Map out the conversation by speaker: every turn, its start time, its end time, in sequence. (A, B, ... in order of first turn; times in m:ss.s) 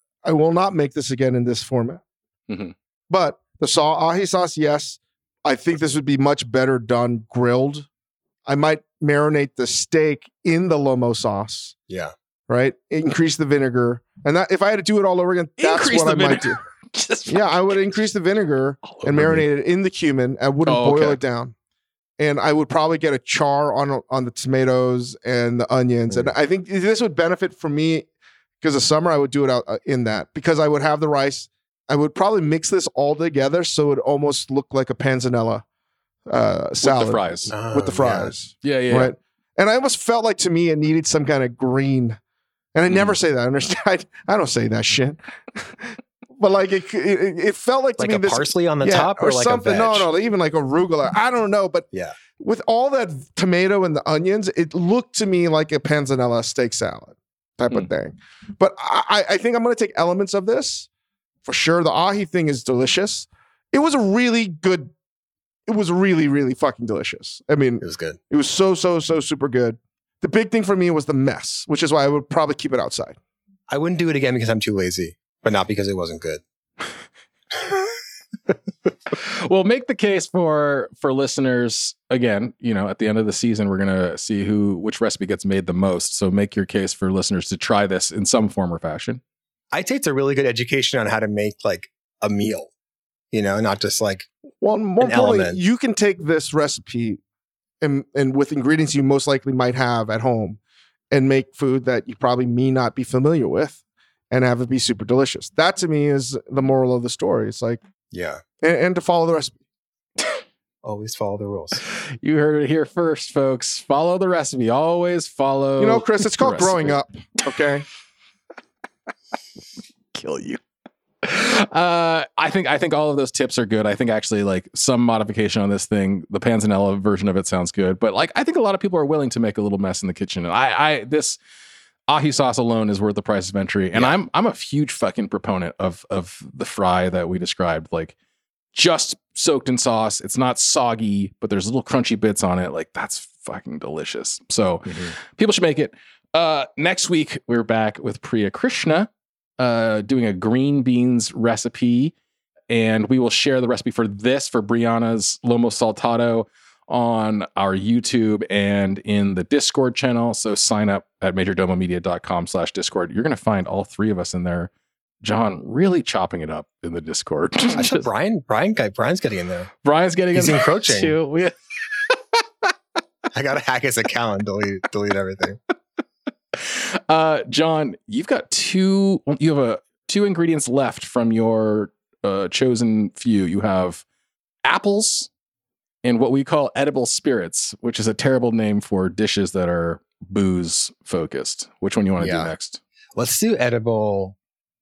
0:00.2-0:02.0 A
0:02.5-0:02.7 B
0:03.1-0:07.9 A
0:08.5-0:11.8 A
0:12.5-0:16.6 A
0:15.6-0:17.9 B
0:17.3-0:21.5 A
0:18.8-0:19.5 B
0:20.6-0:21.2 B
0:22.2-0:28.1 A
0:28.6-0:35.6 A
0:36.3-0:42.2 A
0:36.8-0:37.5 B
0:37.5-0:38.3 C
0:38.6-0:39.1 B
0:42.8-0:51.9 A
0:48.0-0:50.1 C
0:51.9-0:52.2 C
0:52.4-1:00.9 A
1:01.4-1:04.9 A
1:05.7-1:13.2 A
1:07.8-1:08.2 C
1:13.7-1:16.4 C
1:19.1-1:29.2 B
1:29.7-1:32.7 C
1:33.3-1:34.3 C
1:34.6-1:37.2 A
1:35.0-1:35.6 C
1:37.8-1:40.6 A
1:41.1-1:43.8 A
1:44.3-1:47.8 A
1:48.1-1:48.4 C
1:48.6-1:49.6 A
1:50.8-1:51.8 C
1:52.2-1:57.0 B
1:55.8-1:57.9 A
2:00.1-2:00.6 B
2:01.2-2:11.4 B
2:12.1-2:18.1 B
2:18.7-2:32.1 B
2:24.9-2:25.1 C
2:32.7-2:44.7 B
2:45.2-2:48.1 B
2:47.8-2:49.7 C
2:49.8-2:51.5 B
2:50.3-2:51.2 C
2:52.1-2:52.7 B
2:53.3-2:55.6 C
2:56.5-3:04.0 B
3:04.7-3:05.3 B
3:06.0-3:12.8 B
3:12.2-3:12.5 C
3:13.2-3:14.4 C